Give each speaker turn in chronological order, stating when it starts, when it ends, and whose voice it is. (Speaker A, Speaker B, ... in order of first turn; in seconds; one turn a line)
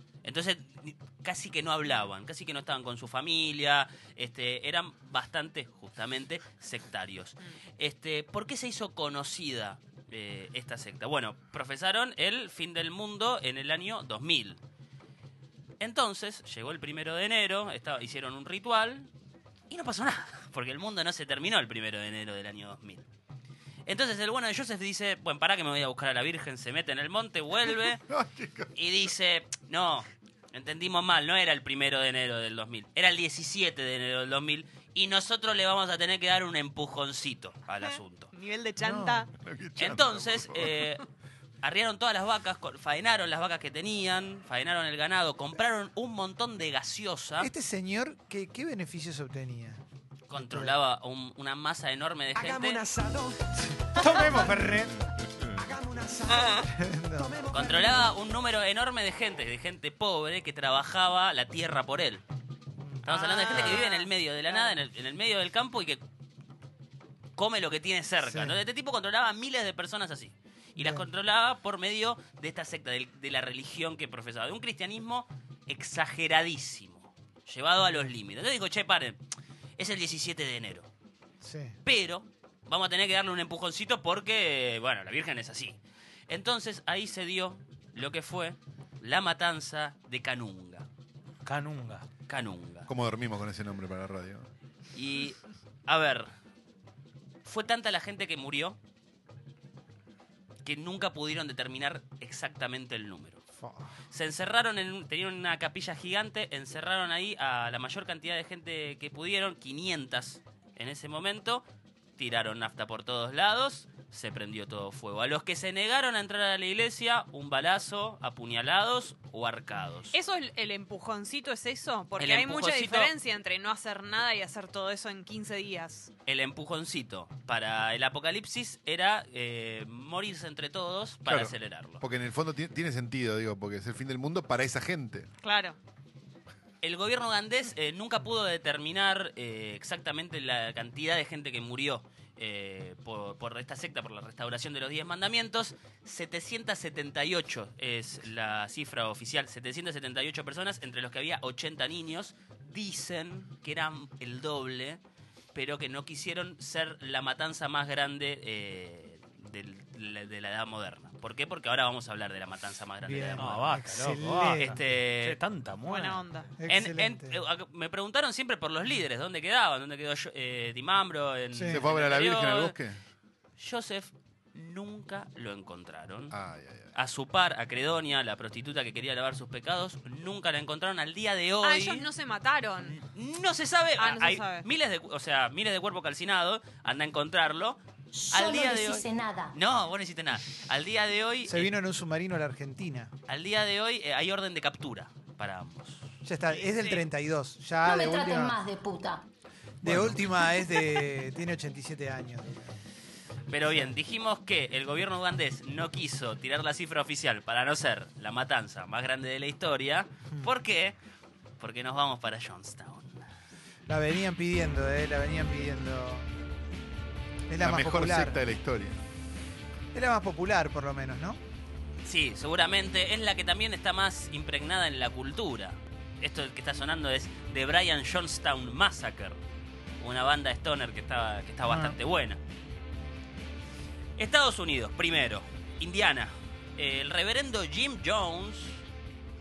Speaker A: 0.2-14.6
Speaker A: 15.8-19.1
Speaker A: 19.7-23.1
Speaker A: 23.9-28.0
Speaker B: 27.7-28.7
Speaker A: 28.7-38.3
Speaker C: 37.8-39.3
Speaker D: 38.8-39.3
Speaker B: 39.4-40.9
Speaker A: 39.8-41.0
Speaker A: 41.6-47.5
Speaker D: 47.4-49.8
Speaker A: 50.3-52.9
Speaker D: 50.3-50.7
Speaker D: 53.5-55.1
Speaker B: 55.1-55.6
Speaker D: 56.4-58.0
Speaker A: 57.5-62.2
Speaker D: 62.8-63.1
Speaker A: 63.0-66.0
Speaker C: 63.1-64.1
Speaker A: 67.4-79.2
Speaker D: 68.2-68.6
Speaker D: 70.8-71.1
Speaker A: 79.8-80.9
Speaker D: 81.4-81.8
Speaker A: 81.8-90.9
Speaker E: 91.4-92.1
Speaker A: 92.3-92.9
Speaker B: 92.9-94.5
Speaker A: 94.9-96.3
Speaker A: 97.4-98.8
Speaker A: 100.6-103.4
Speaker D: 103.6-103.9
Speaker A: 104.1-111.6
Speaker A: 112.2-120.2
Speaker C: 120.1-126.1
Speaker A: 122.2-123.1
Speaker A: 126.3-132.0
Speaker B: 131.3-135.3
Speaker C: 135.4-135.8
Speaker A: 136.8-155.0
Speaker A: 155.5-163.8
Speaker D: 163.0-164.8
Speaker E: 163.3-166.2
Speaker A: 164.5-165.4
Speaker C: 165.8-166.5
Speaker D: 166.6-167.4
Speaker A: 166.7-172.8
Speaker D: 171.5-171.8
Speaker B: 171.7-173.0
Speaker A: 173.6-176.3
Speaker B: 176.3-176.9
Speaker A: 176.9-182.1
Speaker C: 181.6-183.0
Speaker A: 182.9-187.8
Speaker C: 184.0-184.7
Speaker F: 188.1-189.5
Speaker A: 188.3-191.7
Speaker D: 191.5-193.1
Speaker A: 193.3-196.1
Speaker D: 196.2-198.6
Speaker C: 196.6-197.0
Speaker F: 197.8-199.2
Speaker D: 199.8-202.6
Speaker A: 203.5-210.9
Speaker D: 203.7-203.9
Speaker A: 211.6-213.2
Speaker D: 213.9-216.3
Speaker D: 217.5-218.4
Speaker B: 217.6-219.0
Speaker D: 219.9-221.4
Speaker A: 222.0-229.4
Speaker A: 230.0-232.4
Speaker D: 231.7-231.9
Speaker A: 234.2-238.8